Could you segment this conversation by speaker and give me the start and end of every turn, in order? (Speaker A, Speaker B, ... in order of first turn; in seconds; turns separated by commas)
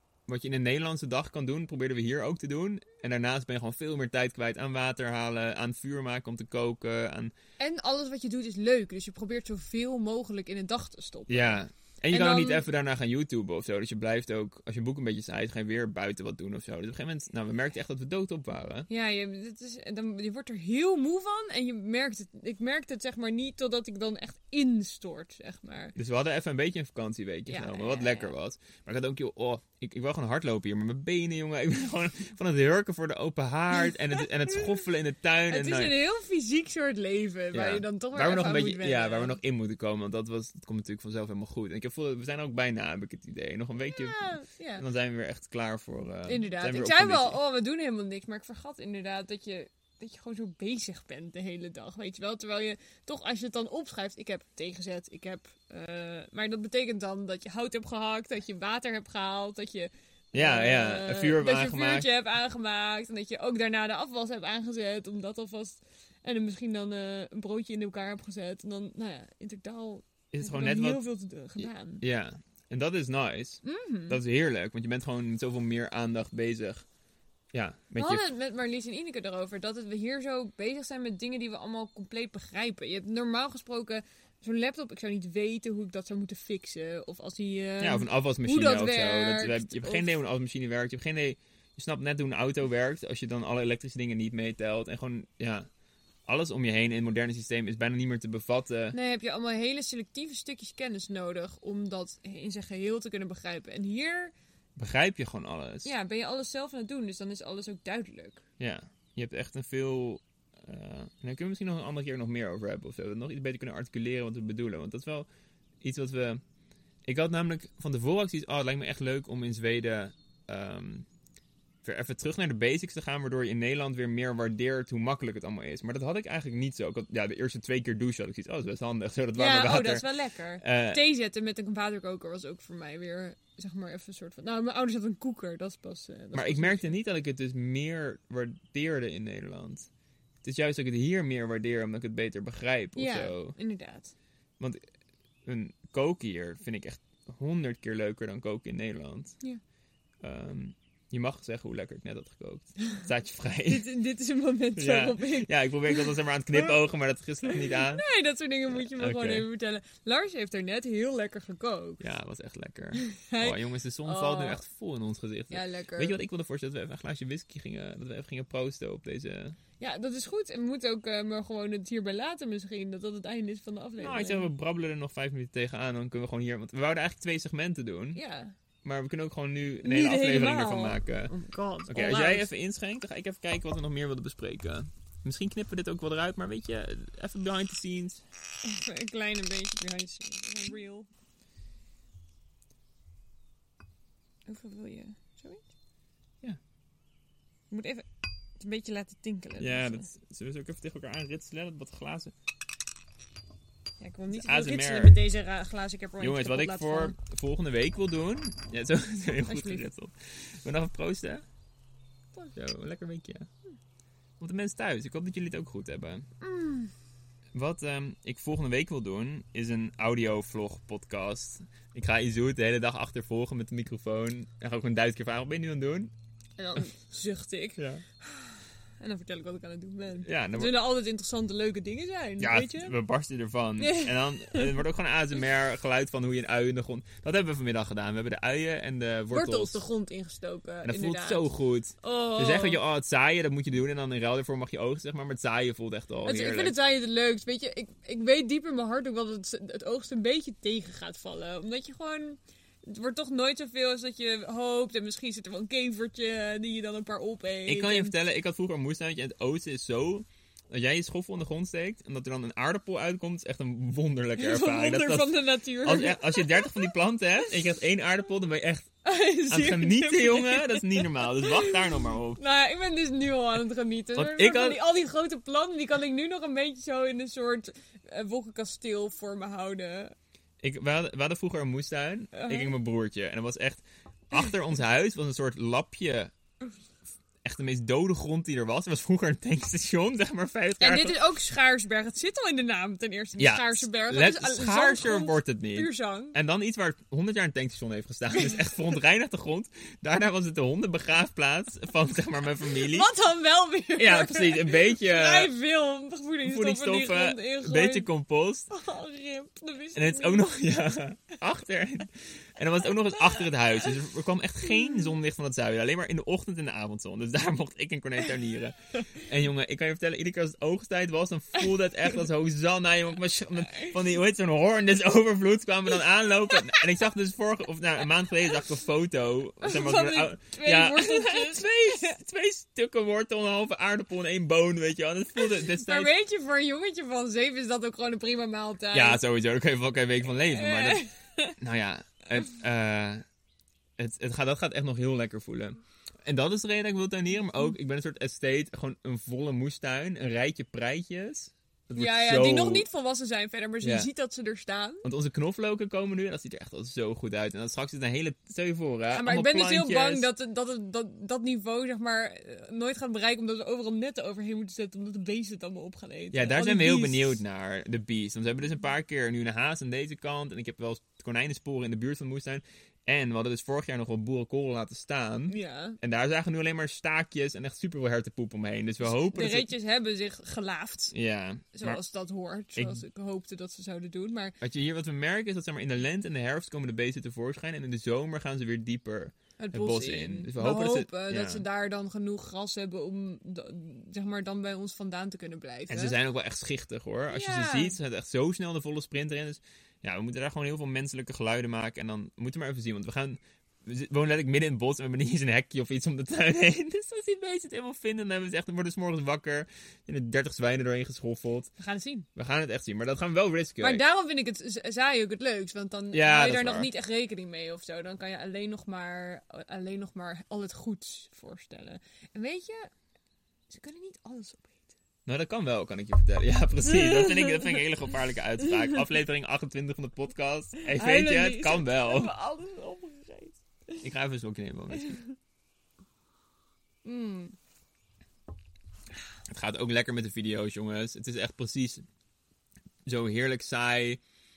Speaker A: 0.3-7.3, Speaker B: 7.6-12.6, Speaker A: 11.3-18.9, Speaker B: 18.9-25.9, Speaker A: 25.9-36.0, Speaker B: 27.5-28.3, Speaker B: 35.5-39.4, Speaker A: 37.5-47.4, Speaker B: 43.8-44.8, Speaker B: 46.2-72.0, Speaker A: 60.3-62.1, Speaker A: 70.3-71.0, Speaker A: 71.6-76.8, Speaker B: 73.6-74.2, Speaker A: 77.5-78.2, Speaker B: 78.0-90.1, Speaker A: 87.8-95.7, Speaker A: 96.3-99.0, Speaker B: 98.9-104.3, Speaker A: 104.8-105.9, Speaker B: 105.8-108.4, Speaker A: 108.6-115.3, Speaker A: 115.8-116.4, Speaker A: 117.0-121.1, Speaker A: 121.8-130.1, Speaker B: 129.3-136.9, Speaker A: 130.6-131.0, Speaker A: 136.3-139.9, Speaker A: 140.4-143.6, Speaker B: 142.9-144.1, Speaker A: 145.4-149.4, Speaker A: 150.2-153.9, Speaker B: 153.7-156.7, Speaker A: 154.8-158.0, Speaker B: 157.4-162.0, Speaker A: 158.7-159.5, Speaker A: 162.0-169.6, Speaker B: 162.9-164.6, Speaker B: 165.5-166.2, Speaker B: 169.8-174.5, Speaker A: 174.0-178.2, Speaker B: 178.1-178.5, Speaker A: 178.8-181.3, Speaker B: 179.8-182.5, Speaker A: 181.9-188.2, Speaker B: 188.6-191.1, Speaker B: 194.4-195.7, Speaker B: 197.7-198.1, Speaker B: 198.6-200.1, Speaker A: 199.6-202.3, Speaker B: 204.0-207.2, Speaker A: 204.3-205.2, Speaker A: 206.2-211.4, Speaker B: 209.4-209.9, Speaker A: 212.5-213.5, Speaker A: 214.4-216.3, Speaker B: 216.4-216.9, Speaker A: 217.5-226.1, Speaker B: 226.6-232.9, Speaker A: 227.8-228.0, Speaker A: 230.2-230.7, Speaker A: 232.4-239.8, Speaker B: 233.8-234.8, Speaker B: 239.3-241.5, Speaker A: 240.8-246.8, Speaker B: 242.0-242.8, Speaker B: 246.2-258.1, Speaker A: 257.6-268.9, Speaker B: 264.4-266.9, Speaker B: 269.0-280.1, Speaker A: 269.5-272.4, Speaker A: 274.1-274.8, Speaker A: 280.6-286.3, Speaker B: 282.3-282.8, Speaker A: 287.4-291.2, Speaker B: 290.8-296.4, Speaker A: 293.4-303.1, Speaker B: 302.8-308.1, Speaker A: 303.9-305.5, Speaker A: 306.4-308.7, Speaker B: 308.7-310.4, Speaker A: 309.9-336.1, Speaker B: 314.8-315.1, Speaker B: 329.6-332.2, Speaker B: 335.5-339.2, Speaker A: 338.9-341.0, Speaker B: 340.4-341.6, Speaker A: 341.6-343.2, Speaker A: 344.0-352.8, Speaker B: 351.9-355.1, Speaker A: 353.8-354.1, Speaker A: 355.0-360.3, Speaker B: 359.1-367.4, Speaker A: 366.3-379.7, Speaker B: 375.5-376.0, Speaker B: 379.0-381.1, Speaker A: 381.1-382.0, Speaker B: 381.7-384.6, Speaker A: 382.8-383.0, Speaker A: 384.6-391.6, Speaker B: 389.6-396.1, Speaker A: 395.9-411.7, Speaker B: 397.3-398.0, Speaker B: 411.8-412.3, Speaker A: 412.3-414.0, Speaker B: 413.8-422.9, Speaker A: 416.1-416.9, Speaker B: 423.7-424.9, Speaker A: 425.2-432.3, Speaker B: 426.8-427.8, Speaker B: 428.6-429.0, Speaker B: 430.8-434.1, Speaker A: 434.0-435.2, Speaker B: 435.0-435.3, Speaker B: 437.0-437.6, Speaker A: 439.5-442.0, Speaker A: 443.1-444.2